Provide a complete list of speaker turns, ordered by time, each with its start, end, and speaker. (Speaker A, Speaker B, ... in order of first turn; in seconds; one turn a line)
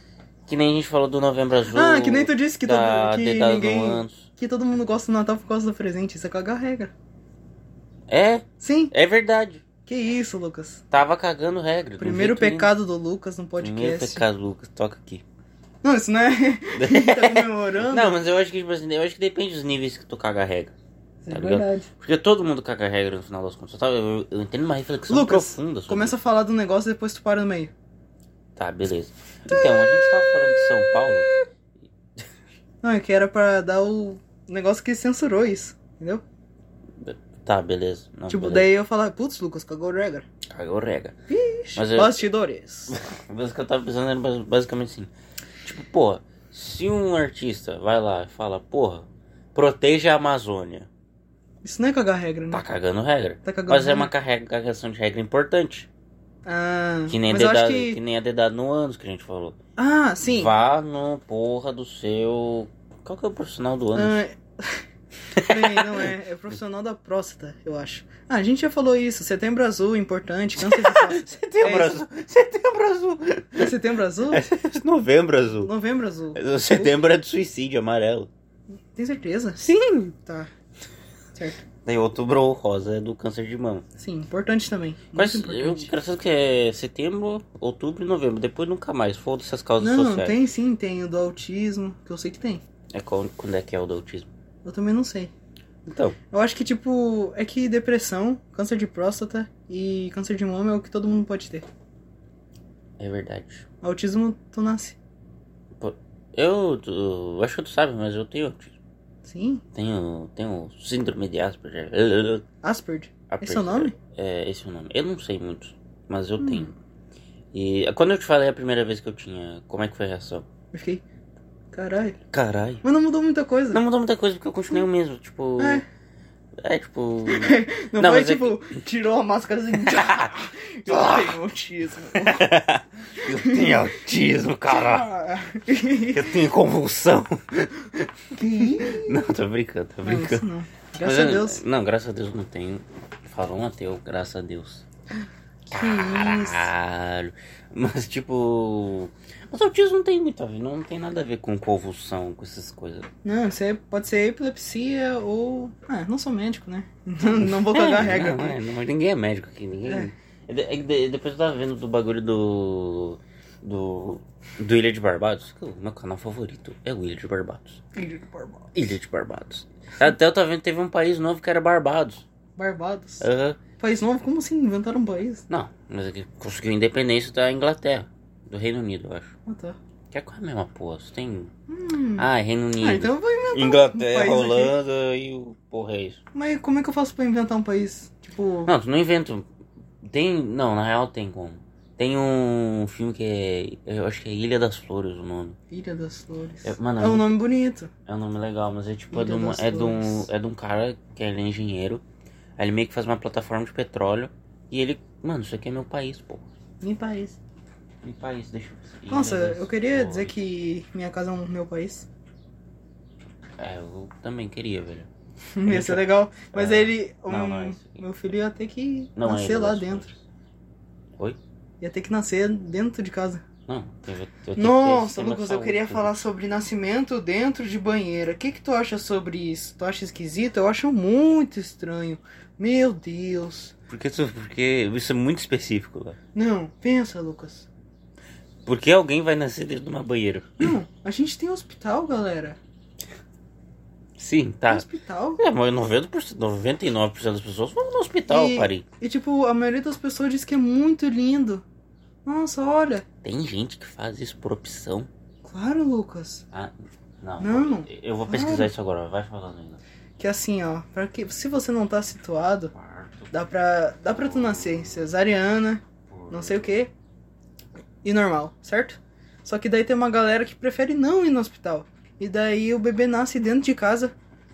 Speaker A: 0.5-4.3
Speaker B: 1.7-6.9
Speaker A: 8.1-9.6
Speaker B: 8.6-8.9
Speaker B: 9.8-10.8
Speaker A: 10.9-12.7
Speaker B: 12.0-14.2
Speaker A: 13.6-15.2
Speaker B: 15.8-18.2
Speaker A: 16.7-20.7
Speaker B: 21.2-21.9
Speaker A: 21.3-26.1
Speaker B: 25.1-27.7
Speaker A: 28.6-31.3
Speaker B: 29.5-31.2
Speaker B: 32.8-36.2
Speaker A: 37.0-38.7
Speaker B: 38.3-40.2
Speaker A: 40.5-41.1
Speaker B: 41.3-42.9
Speaker A: 41.7-42.2
Speaker A: 42.9-45.1
Speaker A: 45.6-50.9
Speaker B: 51.6-52.6
Speaker A: 52.5-55.9
Speaker B: 53.4-54.1
Speaker B: 56.4-58.0
Speaker A: 57.1-59.6
Speaker B: 59.8-60.5
Speaker A: 60.2-64.2
Speaker B: 63.9-64.8
Speaker A: 65.3-66.1
Speaker B: 65.4-72.0
Speaker A: 70.6-73.7
Speaker B: 73.5-74.4
Speaker A: 74.2-75.7
Speaker B: 75.6-76.9
Speaker A: 76.3-78.3
Speaker B: 78.9-80.5
Speaker A: 79.6-80.1
Speaker B: 81.3-81.6
Speaker A: 81.8-83.8
Speaker B: 84.0-85.9
Speaker A: 85.1-90.4
Speaker B: 89.8-92.6
Speaker A: 92.9-94.3
Speaker B: 94.6-95.3
Speaker A: 95.8-96.2
Speaker B: 96.3-101.7
Speaker A: 103.0-103.7
Speaker B: 103.8-105.0
Speaker A: 105.8-108.8
Speaker B: 109.2-109.6
Speaker A: 109.7-112.4
Speaker B: 112.6-113.9
Speaker A: 113.3-116.7
Speaker B: 116.4-116.7
Speaker A: 117.5-120.5
Speaker B: 120.7-121.0
Speaker B: 121.7-122.2
Speaker A: 122.3-122.8
Speaker B: 122.8-123.8
Speaker A: 123.7-125.8
Speaker B: 125.6-125.8
Speaker A: 126.6-128.8
Speaker B: 127.3-132.5
Speaker A: 129.8-131.3
Speaker A: 132.1-135.1
Speaker B: 133.3-133.8
Speaker B: 134.7-136.4
Speaker A: 136.0-140.5
Speaker B: 138.3-139.3
Speaker B: 140.0-141.6
Speaker A: 141.0-144.8
Speaker B: 145.7-146.7
Speaker A: 145.7-153.1
Speaker B: 153.2-158.6
Speaker A: 157.2-167.8
Speaker B: 159.8-160.1
Speaker B: 167.9-168.7
Speaker A: 168.7-172.2
Speaker B: 172.6-173.2
Speaker A: 173.2-173.6
Speaker B: 173.8-175.4
Speaker A: 175.5-179.3
Speaker B: 179.4-179.8
Speaker A: 180.1-181.5
Speaker B: 181.7-182.3
Speaker A: 182.2-186.2
Speaker B: 182.8-184.7
Speaker B: 186.3-188.7
Speaker A: 188.7-189.4
Speaker A: 190.0-195.6
Speaker B: 195.7-197.9
Speaker A: 196.6-197.4
Speaker A: 198.1-202.0
Speaker B: 199.1-200.3
Speaker A: 202.6-206.5
Speaker B: 206.8-207.4
Speaker A: 208.0-210.3
Speaker B: 209.1-212.1
Speaker A: 213.6-215.1
Speaker B: 215.6-220.1
Speaker A: 215.6-218.0
Speaker A: 219.2-220.2
Speaker B: 221.8-223.4
Speaker A: 223.7-226.2
Speaker B: 224.6-233.7
Speaker A: 233.9-236.2
Speaker B: 236.3-237.7
Speaker A: 238.7-240.7
Speaker B: 240.6-242.6
Speaker A: 244.2-244.8
Speaker B: 244.7-245.4
Speaker A: 245.4-248.8
Speaker B: 248.3-251.6
Speaker B: 252.2-253.0
Speaker A: 253.2-255.1
Speaker B: 255.4-256.4
Speaker A: 256.5-259.8
Speaker B: 257.4-258.7
Speaker B: 260.2-262.7
Speaker A: 262.7-263.4
Speaker B: 263.3-266.9
Speaker A: 264.1-265.0
Speaker A: 266.1-266.7
Speaker B: 268.0-274.1